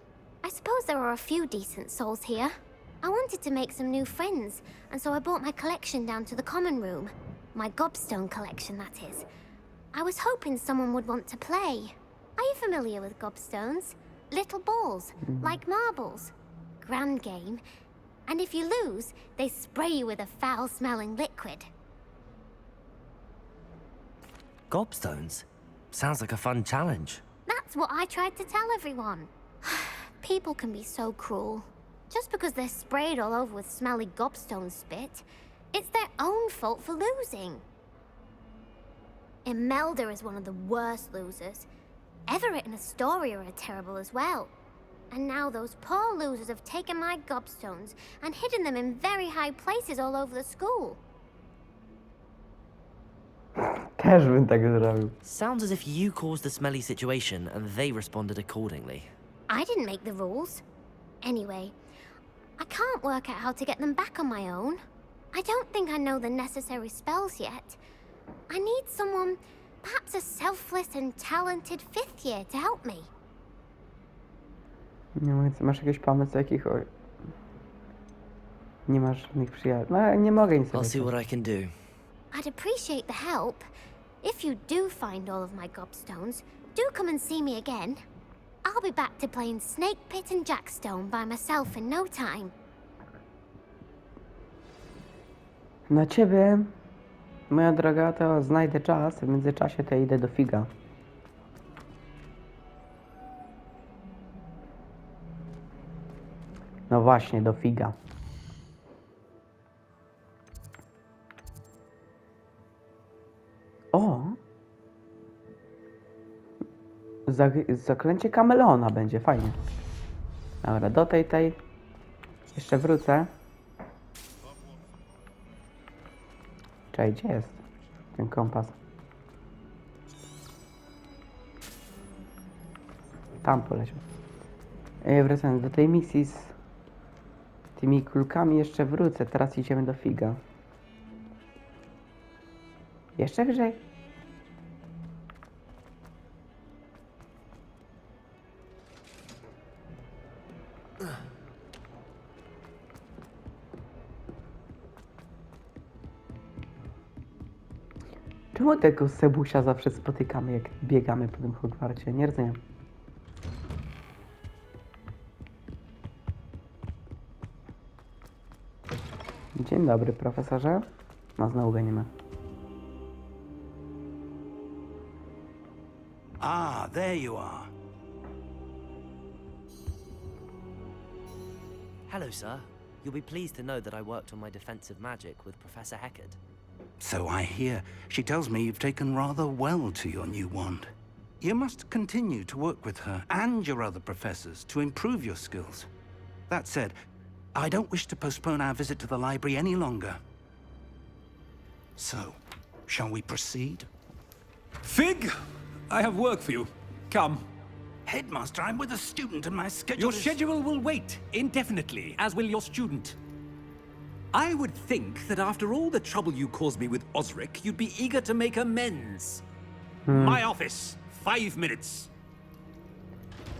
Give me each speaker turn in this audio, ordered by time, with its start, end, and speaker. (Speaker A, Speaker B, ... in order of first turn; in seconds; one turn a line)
Speaker A: 0.4-9.2
Speaker A: 9.9-17.6
Speaker B: 15.2-15.6
Speaker A: 18.3-21.7
Speaker C: 24.7-27.2
Speaker A: 27.5-37.6
Speaker A: 39.5-41.7
Speaker A: 42.3-44.5
Speaker A: 45.1-51.0
Speaker B: 53.5-55.1
Speaker C: 55.2-59.1
Speaker A: 59.5-60.6
Speaker A: 61.2-61.7
Speaker A: 62.6-64.8
Speaker A: 65.3-67.8
Speaker A: 68.5-73.1
Speaker B: 75.2-76.9
Speaker B: 78.9-81.1
Speaker C: 80.7-81.7
Speaker A: 82.3-83.7
Speaker A: 84.2-88.0
Speaker A: 88.6-92.5
Speaker B: 95.9-96.7
Speaker B: 97.5-100.7
Speaker B: 106.9-108.0
Speaker B: 113.9-114.4
Speaker B: 117.2-119.6
Speaker B: 120.6-121.6
Speaker B: 122.5-123.3
Speaker B: 126.9-127.6
Speaker B: 128.1-128.8
Speaker B: 133.4-134.0
Speaker B: 135.0-136.5
Speaker B: 137.8-140.4
Speaker B: 143.2-143.8
Speaker B: 158.5-162.6
Speaker B: 169.5-172.1
Speaker D: 176.4-177.7
Speaker C: 182.1-186.4
Speaker D: 187.0-195.9
Speaker D: 196.5-196.9
Speaker D: 197.5-200.2
Speaker D: 202.0-203.9
Speaker E: 204.8-207.4
Speaker D: 208.1-210.4
Speaker E: 209.9-213.2
Speaker E: 214.3-219.4
Speaker B: 220.1-220.4
Speaker E: 220.1-222.1